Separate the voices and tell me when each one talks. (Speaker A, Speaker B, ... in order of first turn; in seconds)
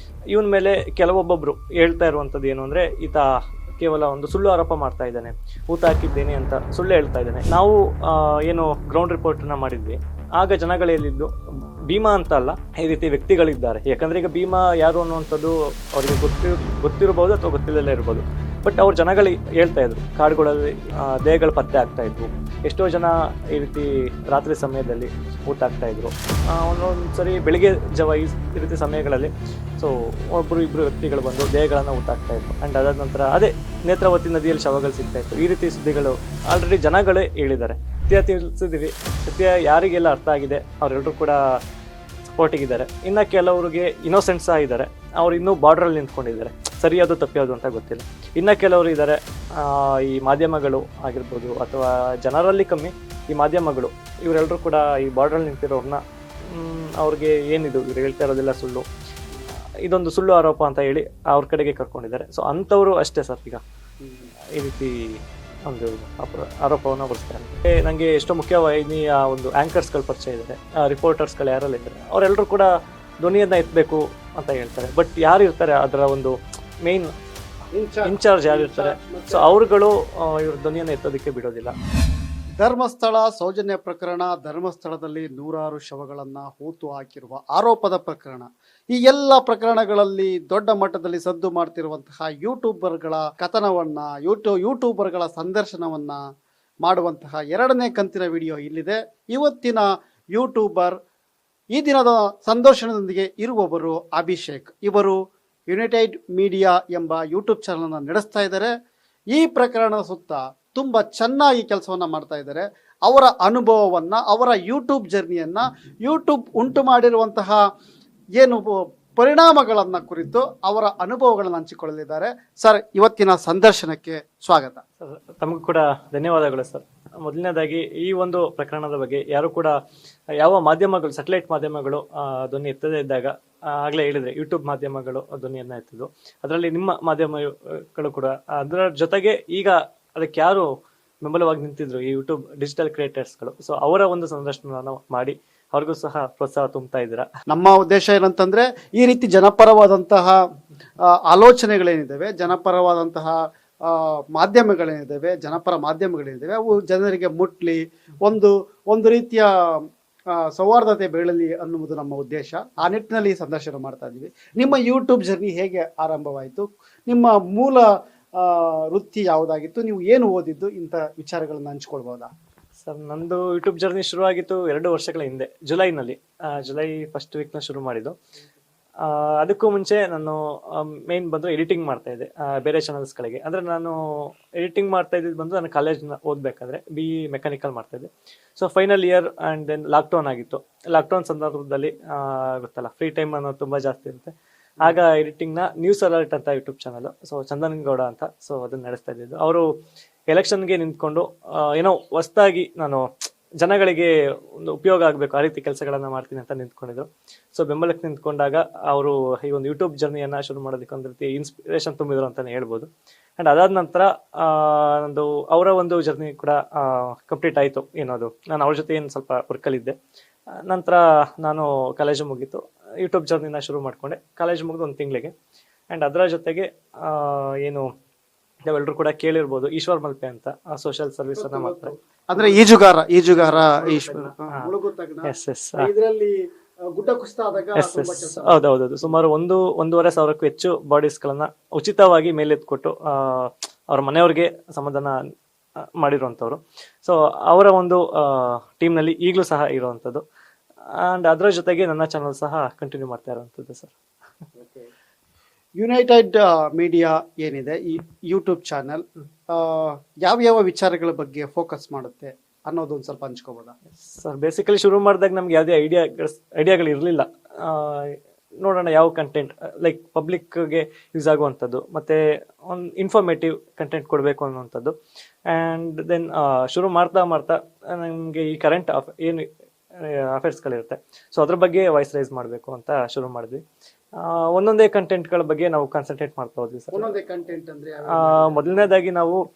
Speaker A: 0.3-11.3, 11.9-41.4, 42.3-58.9, 59.8-63.6, 64.5-77.1, 78.0-81.8, 125.0-129.8, 130.4-140.7, 141.2-147.3, 172.8-178.1, 179.0-199.7, 200.3-203.1, 203.6-219.9, 220.7-225.3, 225.9-227.9, 228.7-232.6, 233.3-234.7, 235.2-235.9, 237.8-245.2, 246.0-250.2, 250.9-253.9, 264.0-274.9, 275.5-279.5, 280.0-283.6, 284.2-287.1, 288.1-289.4
Speaker B: 64.0-64.3, 77.7-79.5, 82.6-96.2, 96.8-100.9, 101.7-105.2, 105.7-108.7, 109.3-117.6, 118.4-124.8, 147.5-150.4, 151.1-172.3, 231.3-236.3, 236.9-238.6, 254.6-254.9, 255.8-263.7, 286.9-288.9